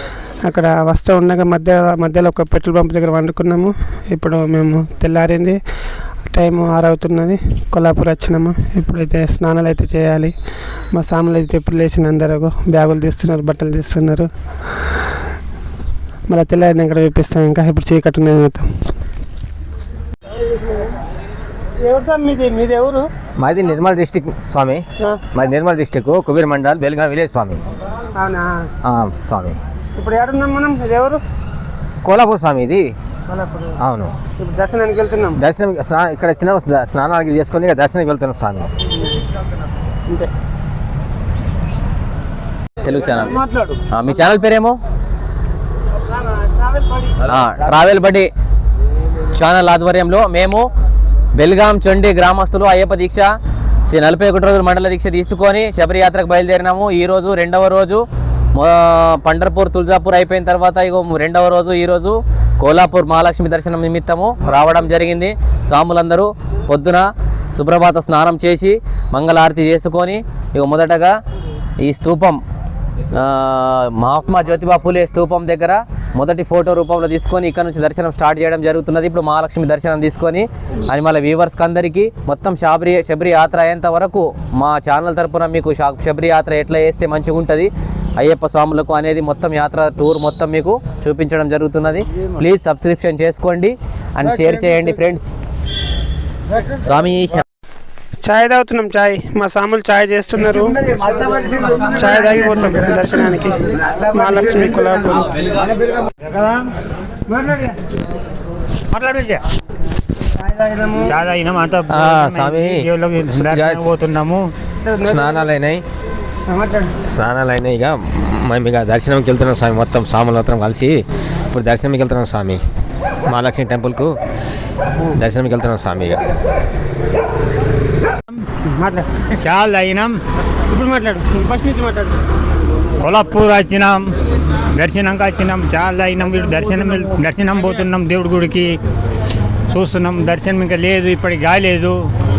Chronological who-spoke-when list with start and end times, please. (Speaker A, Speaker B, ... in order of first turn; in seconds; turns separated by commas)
Speaker A: 0.4-5.6, Speaker A: 6.3-10.3, Speaker A: 10.9-14.3, Speaker A: 16.3-18.7, Speaker A: 21.8-23.1, Speaker B: 23.4-27.6, Speaker A: 28.1-28.7, Speaker B: 28.8-29.6, Speaker A: 29.9-31.2, Speaker B: 32.0-32.9, Speaker A: 33.3-33.8, Speaker B: 33.8-34.1, Speaker A: 34.4-35.4, Speaker B: 35.3-38.7, Speaker C: 42.8-43.4, Speaker A: 42.9-43.8, Speaker C: 43.9-44.8, Speaker A: 46.0-47.1, Speaker C: 47.2-48.3, Speaker C: 49.3-50.7, Speaker C: 51.3-53.3, Speaker C: 53.9-71.1, Speaker C: 71.8-72.4, Speaker C: 73.1-95.3, Speaker C: 96.8-97.4, Speaker A: 98.2-100.8, Speaker A: 101.7-105.5, Speaker A: 107.3-107.8, Speaker D: 108.9-109.4, Speaker A: 110.3-111.1, Speaker D: 111.1-114.5, Speaker B: 111.9-113.8, Speaker A: 114.8-115.5, Speaker B: 115.0-115.8, Speaker A: 116.5-117.0, Speaker B: 117.1-122.6, Speaker B: 123.3-124.1, Speaker B: 125.1-126.2, Speaker A: 128.6-129.1, Speaker D: 129.4-130.2, Speaker A: 130.7-132.2, Speaker D: 133.0-134.1, Speaker D: 134.7-138.7, Speaker D: 139.7-142.0